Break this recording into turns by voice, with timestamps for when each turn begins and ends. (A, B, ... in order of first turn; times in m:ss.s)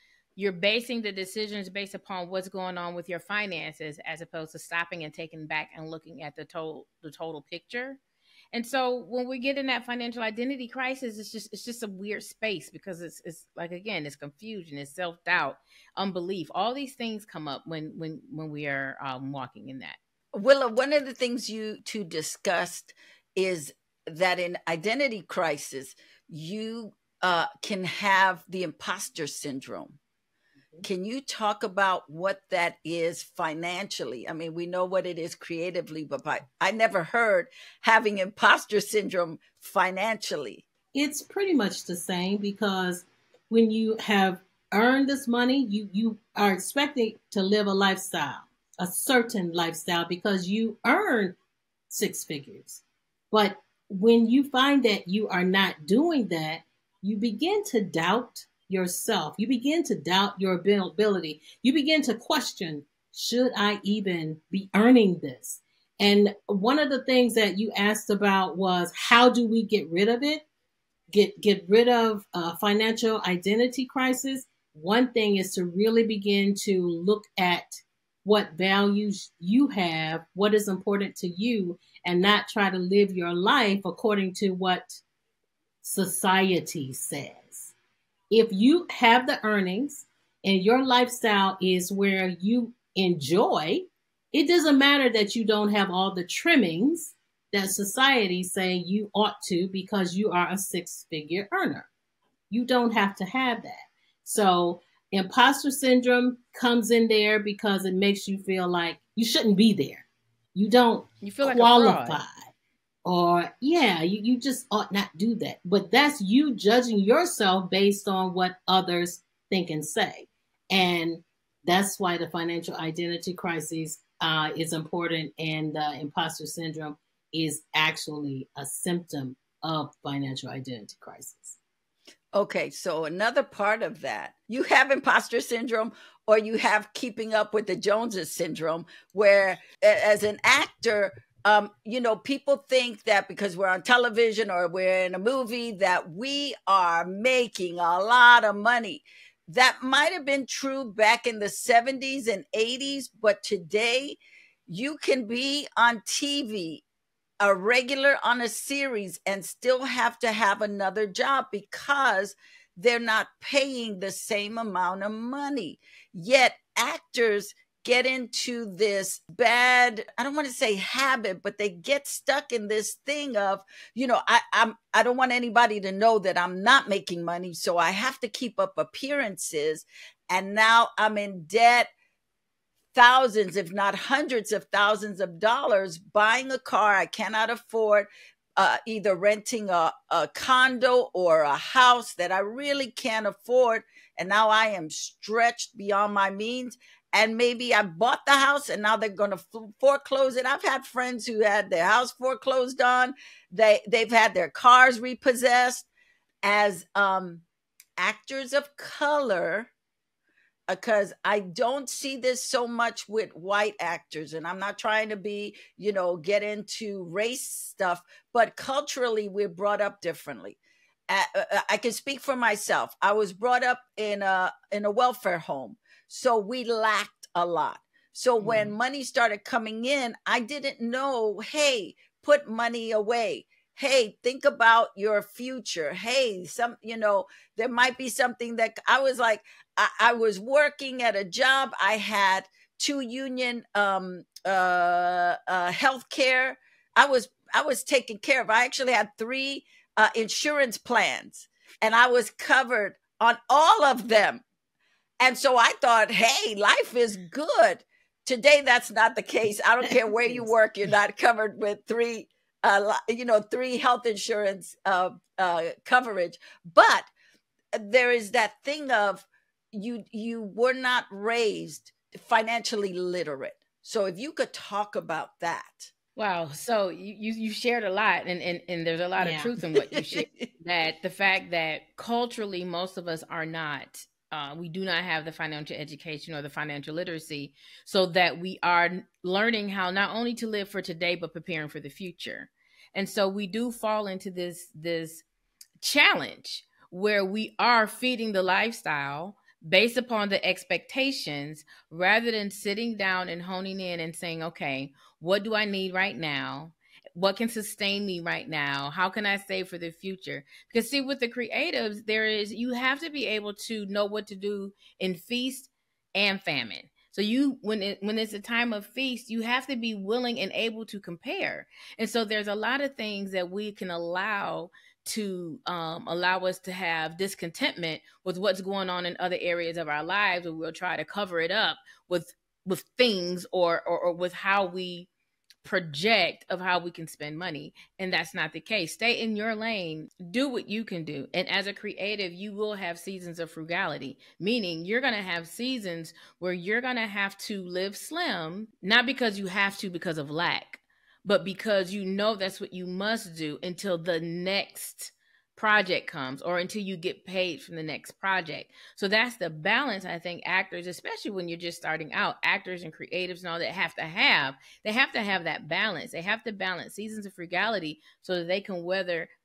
0:00.4-0:08.0 A
0:08.5-0:20.0 A
0:20.3-0:30.0 B
0:30.8-0:40.6 B
0:40.9-0:51.4 C
0:51.9-1:10.4 C
1:11.1-1:25.0 C
1:25.8-1:27.7 C
1:28.3-1:41.9 C
1:42.5-1:52.5 C
1:51.2-1:52.2 A
1:53.0-2:11.6 C
2:12.3-2:36.8 B
2:37.4-3:01.9 B
3:02.9-3:25.9 B
3:26.4-3:27.4 B
3:28.0-3:29.7 B
3:30.7-3:40.6 B
3:41.1-4:14.4 B
3:48.4-3:48.7 C
4:15.2-4:27.1 B
4:19.9-4:20.4 C
4:27.7-4:35.9 B
4:36.2-4:55.2 A
4:39.2-4:39.5 C
4:39.8-4:40.5 B
4:55.8-5:35.1 A
5:35.6-6:09.3 A